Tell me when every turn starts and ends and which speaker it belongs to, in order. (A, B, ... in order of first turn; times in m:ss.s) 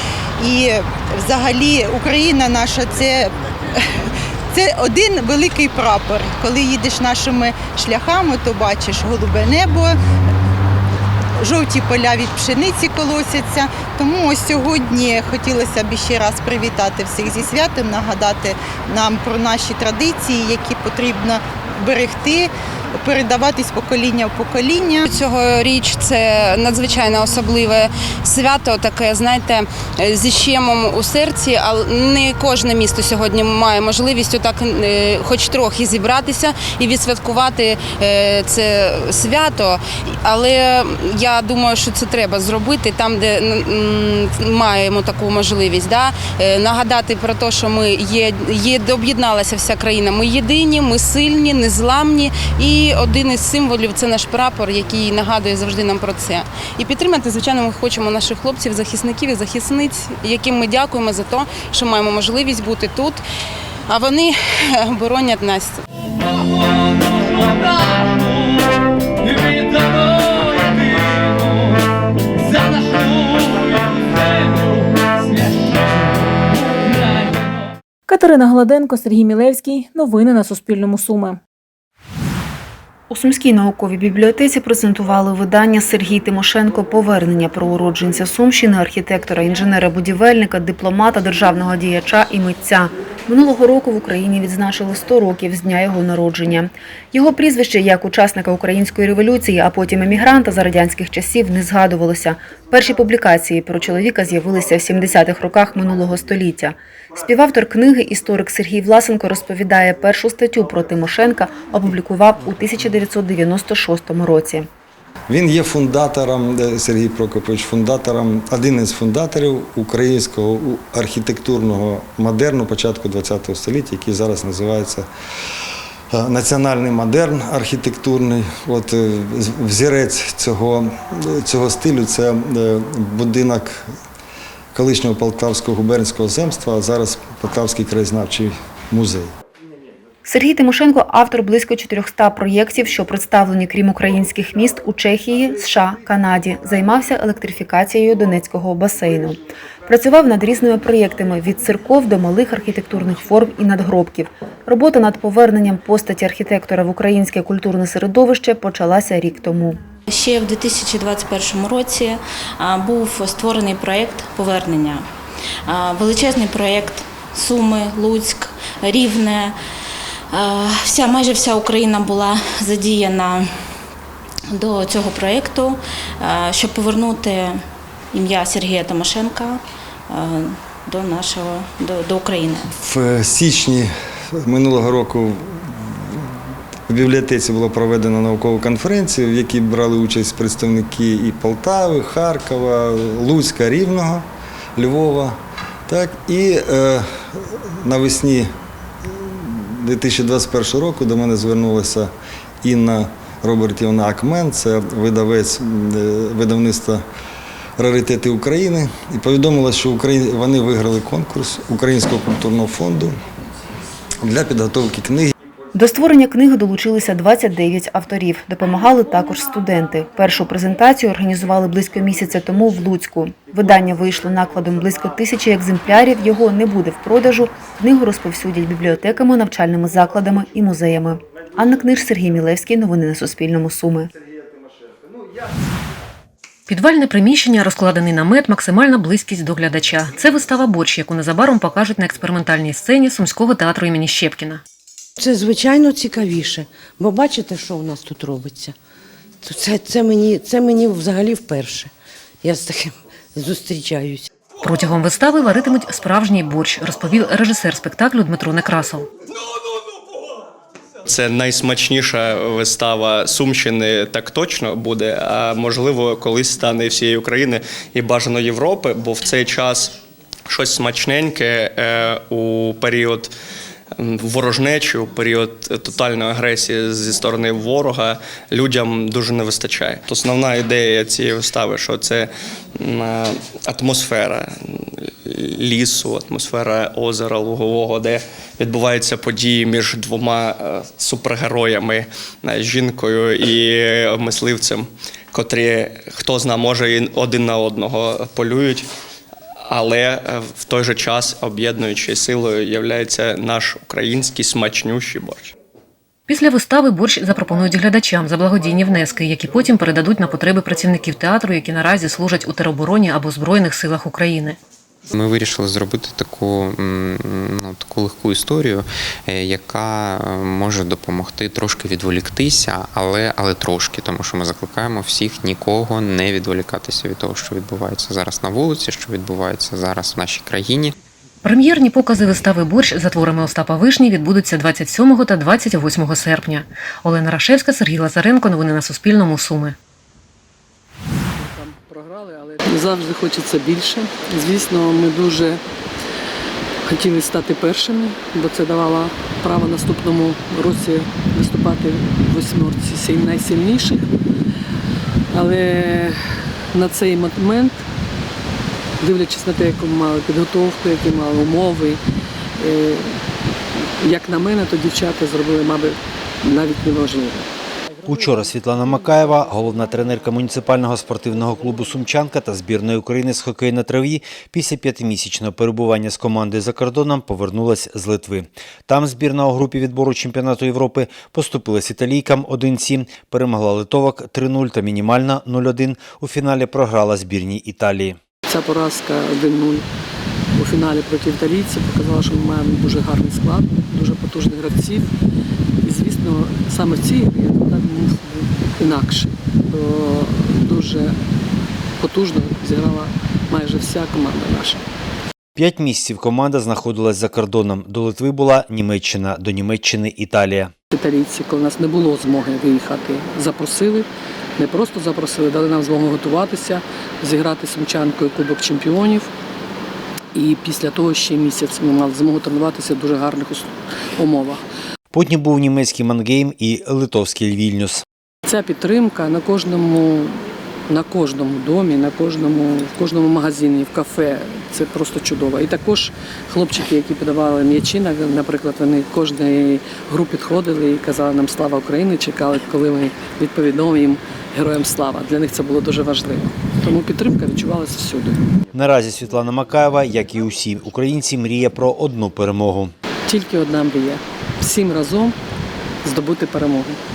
0:00.4-0:03.3 A
0:04.5-0:10.0 A
0:11.4-0:25.1 A
0:25.0-1:03.2 B
1:03.9-1:05.8 B
1:18.1-1:21.4 C
1:23.1-1:54.7 D
1:55.3-2:05.0 E
2:06.1-2:13.8 E
2:14.7-2:19.3 E
2:20.2-2:39.8 D
2:40.1-2:45.1 F
2:45.6-2:49.6 F
2:50.3-2:53.5 F
2:54.5-2:57.6 F
2:58.1-3:02.7 F
3:02.8-3:03.9 E
3:04.4-3:06.2 E
3:06.9-3:14.2 E
3:14.8-3:15.4 E
3:15.9-3:18.5 E
3:19.0-3:22.1 E
3:22.6-3:27.0 E
3:27.8-3:33.1 E
3:34.2-3:35.3 E
3:35.8-3:54.1 D
3:56.7-4:04.6 G
4:05.2-4:08.7 H
4:09.4-4:11.9 H
4:12.4-4:14.2 H
4:14.6-4:19.1 G
4:21.1-4:30.0 I
4:30.5-4:33.3 I
4:34.0-4:58.9 I
4:59.6-5:05.5 I
5:06.3-5:14.6 G
5:15.1-5:30.9 J
5:31.4-5:39.8 G
5:41.2-5:45.6 K
5:46.9-5:54.1 K
5:55.3-5:56.2 K
5:56.7-5:57.8 K
5:59.0-6:02.0 K
6:02.6-6:03.2 K
6:04.0-6:07.4 K
6:08.0-6:28.2 L
6:28.5-6:29.9 K
6:30.6-6:35.1 K
6:35.8-6:41.2 K
6:42.0-6:44.8 K
6:45.6-6:50.7 L
6:50.9-6:59.3 K
7:00.3-7:04.6 K
7:05.1-7:08.0 L
7:08.4-7:28.4 K
7:28.7-7:32.9 L
7:33.3-7:35.4 K
7:36.0-7:37.0 K